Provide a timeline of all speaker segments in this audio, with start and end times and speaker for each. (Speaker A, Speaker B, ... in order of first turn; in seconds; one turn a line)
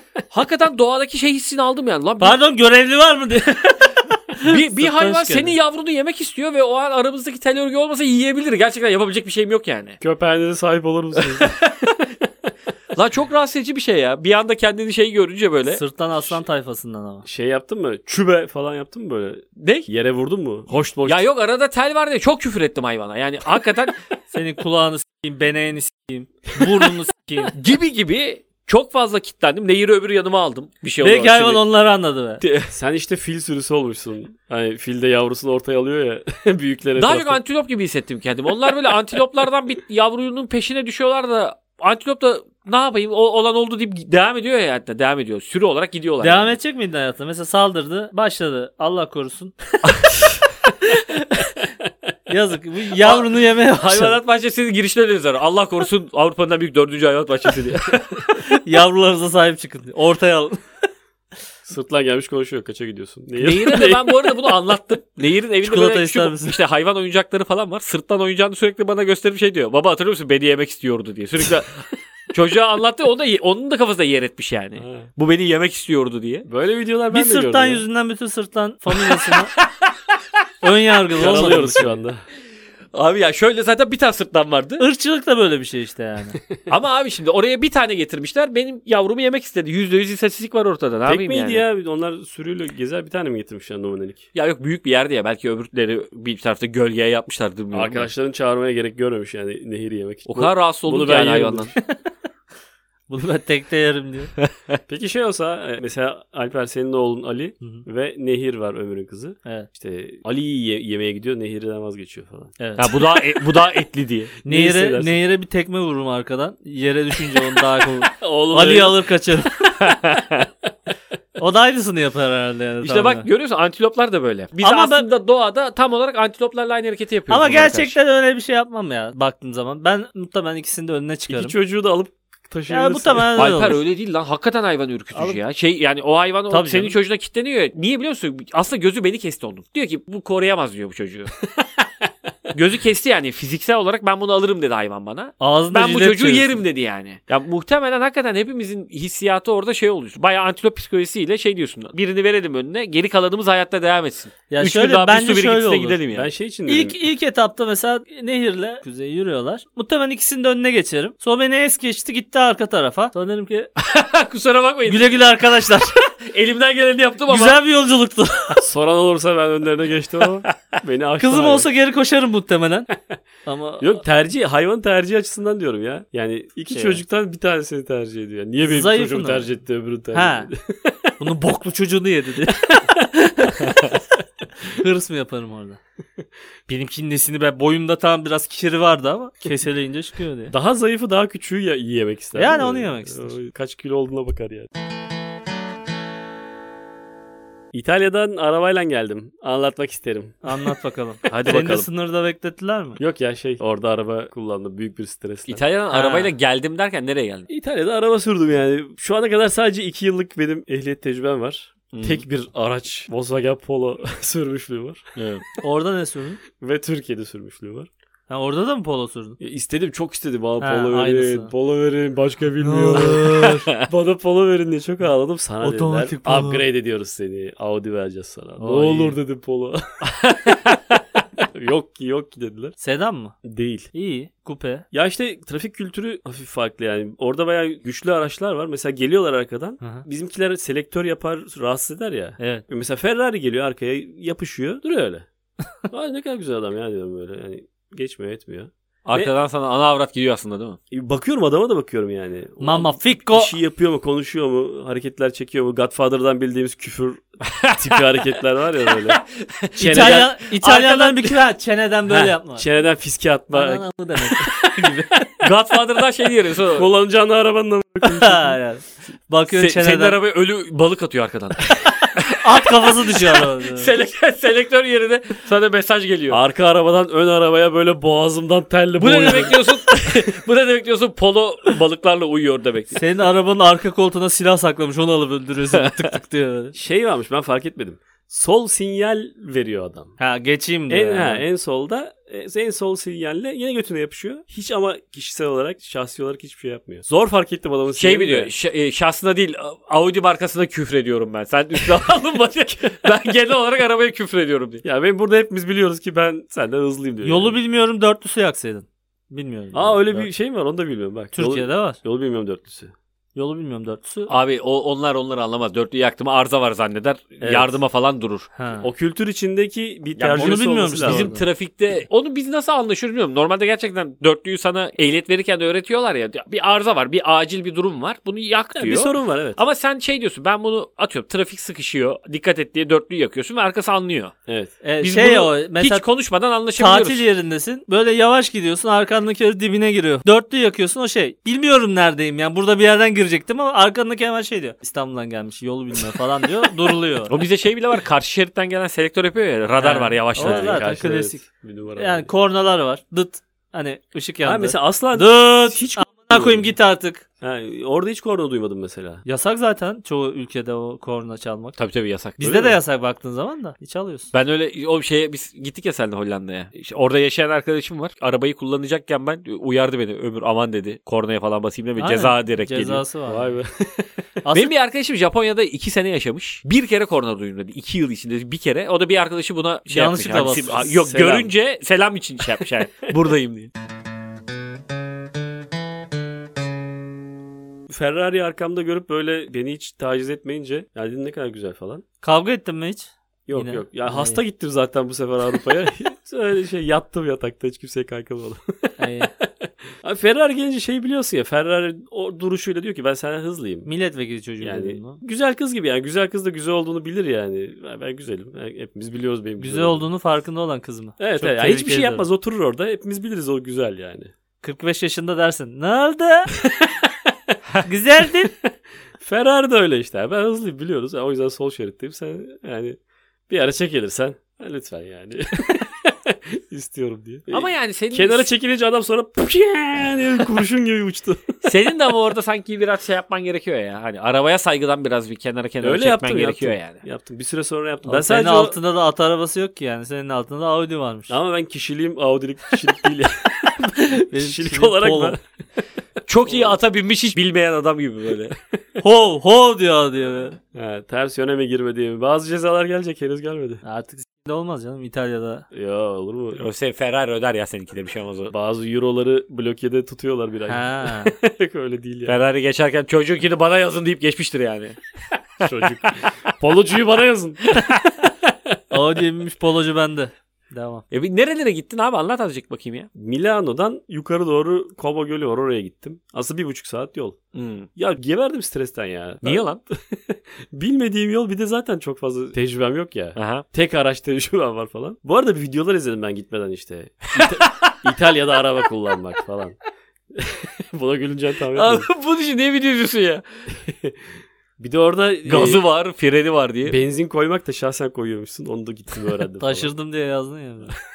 Speaker A: 0.3-2.4
Speaker B: 2.2-5.6
Speaker A: 4.4-10.0
Speaker C: 10.0-11.5
Speaker A: 11.2-12.1
Speaker A: 12.9-15.8
Speaker B: 15.7-17.3
Speaker C: 17.3-21.2
Speaker A: 19.6-19.9
Speaker A: 21.1-24.0
Speaker B: 24.3-27.5
Speaker A: 27.5-31.6
Speaker B: 31.0-32.4
Speaker A: 32.4-32.7
Speaker C: 32.7-37.4
Speaker A: 37.0-46.6
Speaker B: 46.2-49.5
Speaker B: 51.1-51.4
Speaker B: 52.3-54.2
Speaker A: 53.0-58.4
Speaker B: 58.4-60.6
Speaker C: 61.7-64.7
Speaker A: 63.4-76.5
Speaker B: 65.6-66.6
Speaker C: 74.8-75.1
Speaker C: 76.5-77.8
Speaker B: 77.1-79.5
Speaker A: 79.1-79.7
Speaker B: 80.6-82.0
Speaker C: 81.2-82.2
Speaker A: 82.9-84.8
Speaker B: 84.8-86.4
Speaker A: 86.7-91.6
Speaker C: 91.1-94.3
Speaker A: 94.3-98.1
Speaker C: 97.7-101.8
Speaker A: 100.3-101.7
Speaker B: 103.1-104.3
Speaker A: 104.4-104.8
Speaker C: 104.9-112.6
Speaker B: 112.6-113.0
Speaker A: 112.8-114.3
Speaker C: 114.4-115.2
Speaker B: 114.5-119.7
Speaker C: 118.1-119.0
Speaker A: 119.7-120.5
Speaker B: 121.4-123.3
Speaker A: 122.8-128.0
Speaker B: 124.6-125.1
Speaker B: 127.3-131.6
Speaker C: 131.3-133.5
Speaker B: 132.7-133.8
Speaker A: 133.3-141.4
Speaker B: 135.1-135.4
Speaker B: 136.5-137.0
Speaker A: 142.5-156.3
Speaker B: 145.4-146.6
Speaker B: 154.5-156.0
Speaker C: 156.1-157.0
Speaker B: 156.7-163.7
Speaker A: 163.8-167.6
Speaker B: 164.9-165.9
Speaker B: 167.3-168.6
Speaker C: 168.6-171.7
Speaker B: 171.2-172.9
Speaker B: 173.4-174.0
Speaker C: 173.8-181.1
Speaker B: 176.7-177.0
Speaker B: 178.6-179.5
Speaker B: 180.1-180.5
Speaker B: 181.2-183.9
Speaker B: 184.6-185.8
Speaker B: 186.7-190.5
Speaker C: 190.5-194.7
Speaker B: 192.4-193.4
Speaker C: 197.7-200.4
Speaker B: 200.4-203.0
Speaker C: 201.3-201.9
Speaker C: 203.0-205.6
Speaker A: 205.5-207.5
Speaker B: 205.9-206.3
Speaker C: 207.5-215.1
Speaker A: 211.9-212.2
Speaker A: 215.2-215.4
Speaker B: 215.6-216.4
Speaker C: 216.6-217.9
Speaker B: 218.3-219.4
Speaker C: 219.4-230.6
Speaker B: 220.6-221.5
Speaker B: 222.6-223.7
Speaker A: 223.4-223.8
Speaker B: 225.6-226.6
Speaker B: 228.6-229.2
Speaker A: 230.2-231.0
Speaker C: 231.4-232.8
Speaker B: 232.8-233.4
Speaker C: 233.4-233.9
Speaker B: 233.9-234.9
Speaker C: 234.9-245.3
Speaker B: 239.8-240.1
Speaker B: 242.4-242.7
Speaker C: 245.9-249.3
Speaker A: 249.1-250.8
Speaker C: 250.9-259.2
Speaker B: 252.6-253.6
Speaker A: 257.6-258.2
Speaker A: 258.9-261.4
Speaker C: 259.8-260.3
Speaker B: 259.8-262.6
Speaker C: 262.5-263.9
Speaker B: 263.5-265.2
Speaker A: 264.4-266.9
Speaker C: 266.7-268.6
Speaker B: 268.0-270.2
Speaker A: 269.5-272.3
Speaker B: 272.3-273.9
Speaker A: 273.0-276.4
Speaker C: 276.3-279.6
Speaker A: 279.0-283.0
Speaker B: 282.9-286.8
Speaker C: 286.7-290.1
Speaker B: 290.2-291.4
Speaker C: 290.9-298.5
Speaker A: 297.9-304.8
Speaker C: 304.8-307.6
Speaker B: 307.2-310.3
Speaker C: 309.7-312.9
Speaker B: 311.3-312.0
Speaker B: 313.4-314.3
Speaker A: 314.3-318.5
Speaker C: 317.4-317.7
Speaker B: 318.6-318.9
Speaker C: 318.8-321.3
Speaker A: 320.2-334.4
Speaker B: 320.2-321.4
Speaker C: 328.8-329.6
Speaker C: 334.5-334.7
Speaker B: 334.8-336.1
Speaker A: 335.0-337.2
Speaker B: 336.8-347.3
Speaker A: 347.3-350.8
Speaker B: 349.8-351.4
Speaker C: 350.4-352.3
Speaker B: 351.9-357.2
Speaker C: 354.4-356.7
Speaker C: 357.4-359.2
Speaker B: 359.2-361.8
Speaker A: 361.8-362.4
Speaker B: 362.4-364.3
Speaker C: 362.4-362.8
Speaker A: 364.3-373.0
Speaker B: 372.0-373.5
Speaker C: 373.3-374.1
Speaker B: 374.4-374.7
Speaker A: 374.5-383.7
Speaker B: 379.9-380.9
Speaker C: 380.6-381.5
Speaker C: 387.9-392.0
Speaker B: 392.2-394.4
Speaker C: 393.5-403.9
Speaker B: 399.0-399.3
Speaker B: 403.9-405.2
Speaker C: 404.6-410.1
Speaker B: 409.6-412.3
Speaker C: 411.2-414.3
Speaker B: 414.6-416.5
Speaker B: 417.8-418.5
Speaker C: 419.2-431.6
Speaker A: 427.5-428.5
Speaker A: 431.6-437.0
Speaker C: 435.8-438.8
Speaker B: 438.1-441.4
Speaker C: 441.3-445.4
Speaker B: 443.8-445.4
Speaker A: 446.3-448.6
Speaker C: 446.5-446.8
Speaker B: 449.0-450.6
Speaker C: 450.7-453.8
Speaker B: 453.8-455.7
Speaker C: 455.7-456.6
Speaker A: 456.6-458.5
Speaker C: 458.5-462.4
Speaker B: 460.7-461.4
Speaker A: 462.3-465.0
Speaker C: 465.6-467.8
Speaker A: 465.6-466.1
Speaker A: 467.7-468.3
Speaker B: 468.9-471.0
Speaker A: 471.1-473.1
Speaker C: 473.1-477.4
Speaker A: 477.5-477.9
Speaker C: 478.0-489.8
Speaker A: 479.4-479.8
Speaker A: 483.4-483.6
Speaker A: 487.4-488.0
Speaker C: 490.3-492.1
Speaker A: 491.8-493.4
Speaker C: 493.9-494.1
Speaker C: 494.8-495.8
Speaker A: 495.5-497.0
Speaker C: 496.9-499.9
Speaker B: 499.6-500.9